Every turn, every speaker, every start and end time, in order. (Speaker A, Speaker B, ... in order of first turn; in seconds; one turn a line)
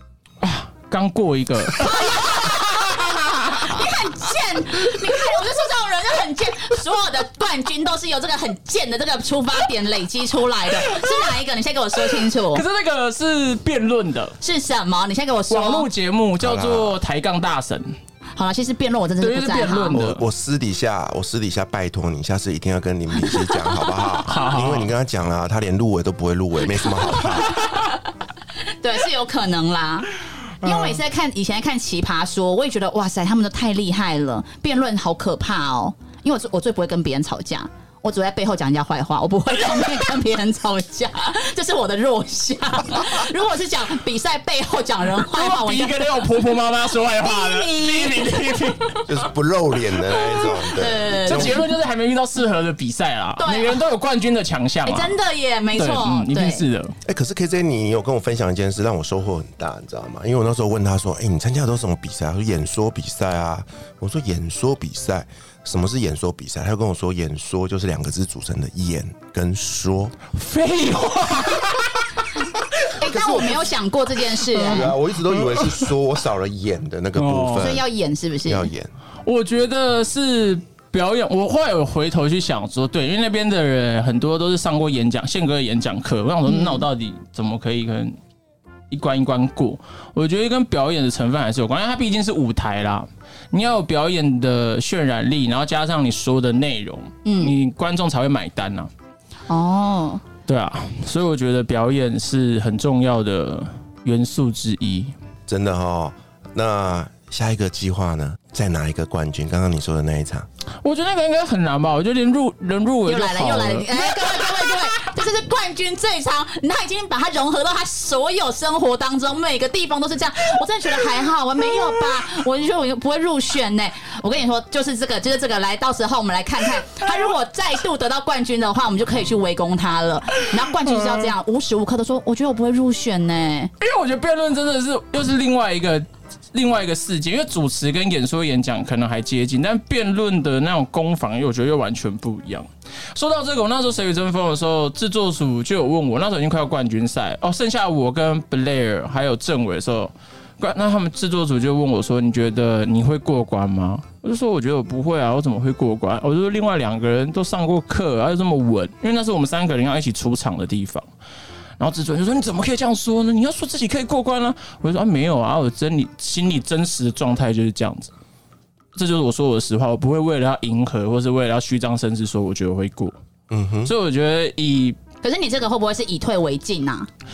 Speaker A: 0.4-3.8
Speaker B: 1.8-12.6
Speaker A: 12.2-14.4
Speaker B: 14.4-15.9
Speaker A: 15.5-17.9
Speaker C: 16.4-17.0
Speaker B: 18.4-20.0
Speaker A: 19.2-20.2
Speaker C: 19.9-27.8
Speaker B: 23.2-24.2
Speaker A: 24.2-24.9
Speaker B: 27.6-27.9
Speaker B: 28.6-30.1
Speaker B: 30.6-46.2
Speaker A: 45.2-49.2
Speaker B: 47.2-48.9
Speaker C: 49.0-51.6
Speaker B: 50.4-51.7
Speaker A: 51.1-55.1
Speaker B: 53.4-53.8
Speaker B: 54.8-56.6
Speaker A: 55.8-57.0
Speaker C: 57.0-70.2
Speaker A: 70.3-72.3
Speaker B: 73.0-75.0
Speaker C: 73.0-73.7
Speaker A: 74.5-75.9
Speaker C: 74.6-77.8
Speaker A: 77.2-77.7
Speaker B: 77.5-78.7
Speaker C: 78.5-78.9
Speaker A: 79.2-88.2
Speaker B: 86.5-86.9
Speaker A: 88.9-98.9
Speaker B: 97.2-97.5
Speaker B: 99.5-100.2
Speaker A: 100.5-105.1
Speaker C: 105.5-110.5
Speaker A: 110.8-114.5
Speaker B: 113.0-133.7
Speaker A: 133.8-161.1
Speaker A: 161.8-168.1
Speaker A: 168.9-173.2
Speaker C: 173.5-173.9
Speaker A: 173.8-175.0
Speaker B: 175.2-177.1